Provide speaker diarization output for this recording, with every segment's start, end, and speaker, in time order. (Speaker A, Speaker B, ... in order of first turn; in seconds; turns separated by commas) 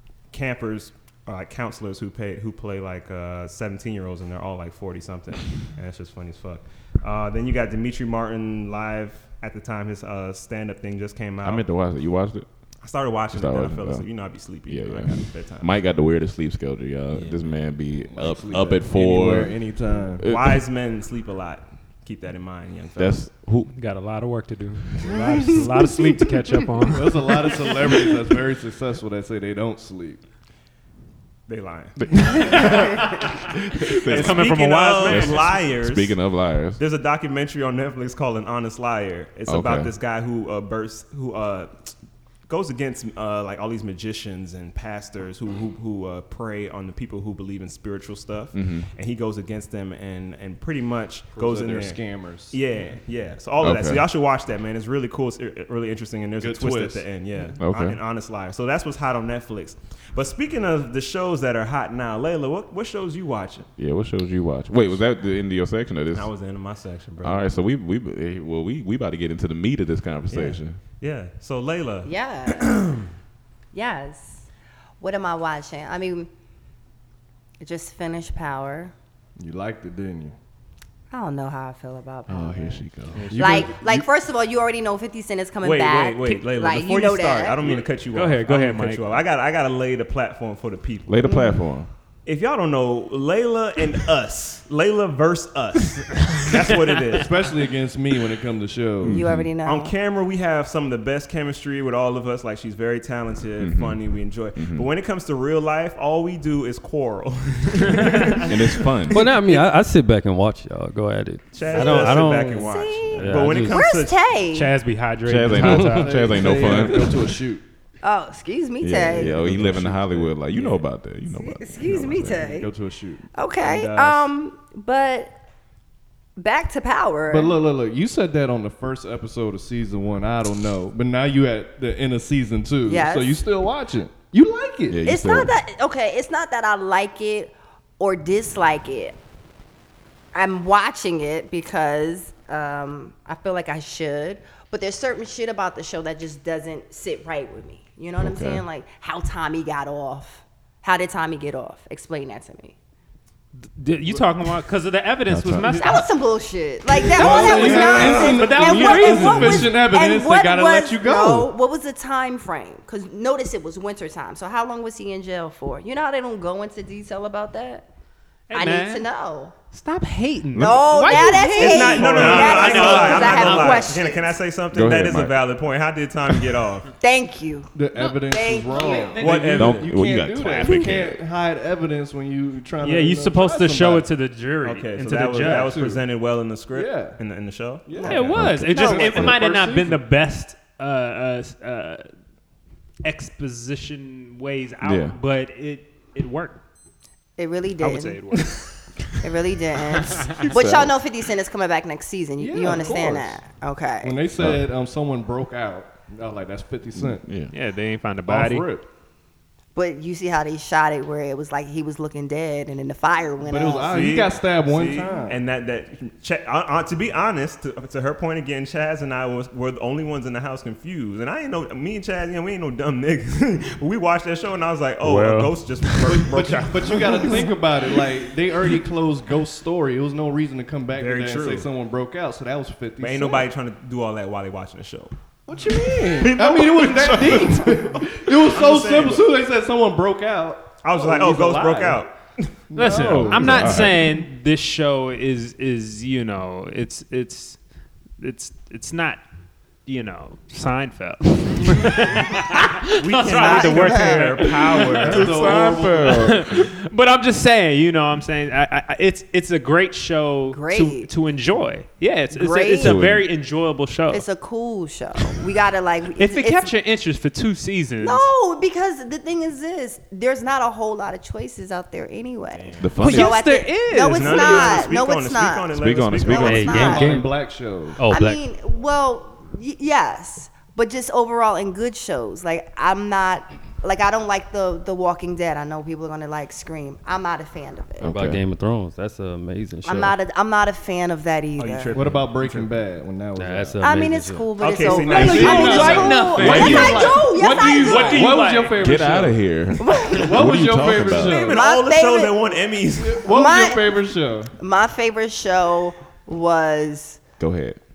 Speaker A: 0.3-11.7, Speaker B: 11.4-12.5, Speaker A: 12.8-15.8, Speaker B: 13.3-19.6, Speaker A: 17.1-17.5, Speaker C: 18.1-20.2, Speaker B: 20.2-20.6, Speaker A: 20.2-23.3, Speaker B: 23.0-23.7, Speaker D: 23.7-27.9, Speaker C: 26.9-30.2, Speaker A: 31.5-32.9, Speaker B: 32.0-32.8, Speaker D: 32.2-35.7, Speaker B: 33.5-36.8, Speaker A: 34.0-36.2, Speaker A: 36.8-42.0, Speaker B: 39.5-39.9, Speaker A: 42.5-52.0, Speaker B: 48.5-48.9, Speaker C: 51.3-52.6, Speaker A: 52.5-63.7, Speaker B: 53.6-54.1, Speaker C: 56.4-57.0, Speaker B: 57.5-58.0, Speaker B: 63.8-66.3, Speaker A: 66.1-67.5, Speaker B: 67.2-70.8, Speaker A: 70.3-73.1, Speaker E: 72.0-72.7, Speaker E: 73.7-74.5, Speaker E: 75.0-76.3, Speaker E: 77.6-78.9, Speaker C: 79.4-80.4, Speaker E: 81.1-82.8, Speaker B: 82.3-83.5, Speaker C: 83.2-84.1, Speaker E: 83.3-87.6, Speaker A: 85.6-91.3, Speaker D: 88.1-89.2, Speaker B: 91.1-91.9, Speaker E: 91.2-91.6, Speaker A: 92.3-97.3, Speaker C: 97.1-99.2, Speaker B: 99.0-99.5, Speaker E: 99.1-100.0, Speaker A: 99.6-109.7, Speaker B: 103.6-104.9, Speaker D: 108.0-108.4, Speaker B: 108.5-109.2, Speaker F: 109.1-113.8, Speaker A: 111.5-114.2, Speaker E: 111.7-114.8, Speaker C: 111.8-112.5, Speaker D: 114.5-116.9, Speaker B: 115.2-117.2, Speaker C: 115.5-117.6, Speaker E: 118.0-119.4, Speaker B: 118.8-122.4, Speaker C: 119.1-120.8, Speaker E: 121.3-122.7, Speaker C: 122.1-123.3, Speaker E: 123.3-125.4, Speaker A: 123.6-124.2, Speaker E: 126.4-127.6, Speaker C: 127.3-135.1, Speaker E: 132.8-133.4, Speaker B: 134.9-135.6, Speaker E: 135.0-139.2, Speaker E: 140.3-152.8, Speaker B: 148.2-148.6, Speaker D: 153.7-156.1, Speaker B: 155.3-155.7, Speaker E: 155.6-167.9, Speaker D: 157.1-159.7, Speaker C: 157.1-161.5, Speaker D: 168.5-169.1, Speaker E: 168.5-169.5, Speaker D: 169.7-173.9, Speaker B: 170.6-170.9, Speaker E: 170.6-174.3, Speaker A: 171.5-176.9, Speaker C: 172.2-173.8, Speaker B: 174.7-175.4, Speaker E: 177.0-179.2, Speaker C: 177.7-184.1, Speaker D: 178.7-179.6, Speaker A: 179.2-180.0, Speaker B: 179.5-181.2, Speaker D: 182.8-185.8, Speaker A: 184.6-188.3, Speaker C: 185.1-186.1, Speaker C: 186.7-187.2, Speaker C: 187.9-190.0, Speaker E: 188.0-189.3, Speaker D: 188.1-192.1, Speaker B: 188.2-189.4, Speaker D: 193.0-196.6, Speaker B: 194.8-195.2, Speaker E: 197.4-198.4, Speaker D: 197.8-198.7, Speaker E: 199.2-204.2, Speaker B: 200.4-201.0, Speaker C: 202.4-203.4, Speaker C: 204.0-207.3, Speaker B: 207.0-207.5, Speaker D: 207.5-208.7, Speaker C: 208.3-208.9, Speaker E: 209.8-213.9, Speaker C: 213.4-215.4, Speaker A: 213.8-227.5, Speaker D: 225.0-226.0, Speaker C: 226.1-233.5, Speaker D: 227.1-227.4, Speaker A: 230.9-231.7, Speaker A: 233.0-235.1, Speaker C: 235.5-242.1, Speaker B: 236.0-238.2, Speaker A: 238.5-239.3, Speaker A: 240.8-242.5, Speaker C: 242.7-244.3, Speaker D: 242.8-247.6, Speaker B: 242.9-244.0, Speaker D: 248.2-249.2, Speaker D: 249.9-255.3, Speaker A: 252.9-255.3, Speaker E: 253.3-254.5, Speaker C: 255.0-256.4, Speaker B: 255.1-256.6, Speaker D: 256.0-264.2, Speaker E: 260.5-261.1, Speaker E: 262.3-263.0, Speaker B: 262.8-263.3, Speaker E: 264.1-266.7, Speaker D: 266.2-268.3, Speaker E: 268.0-277.2, Speaker B: 272.8-273.5, Speaker D: 273.0-274.9, Speaker A: 274.1-276.9, Speaker B: 275.8-276.9, Speaker F: 276.4-277.4, Speaker C: 276.7-278.0, Speaker F: 278.0-278.4, Speaker E: 278.1-288.1, Speaker B: 288.0-288.4, Speaker F: 288.0-290.2, Speaker E: 289.8-292.0, Speaker A: 291.6-292.8, Speaker C: 291.9-293.9, Speaker F: 293.4-294.5, Speaker E: 293.8-298.4, Speaker A: 294.6-296.1, Speaker D: 295.1-298.8, Speaker C: 295.1-299.5, Speaker B: 296.3-297.1, Speaker B: 298.8-301.4, Speaker E: 299.8-300.5, Speaker C: 300.1-301.6, Speaker A: 301.1-303.3, Speaker E: 301.3-302.5, Speaker C: 303.0-304.5, Speaker E: 303.3-303.9, Speaker E: 304.6-307.2, Speaker B: 307.4-307.8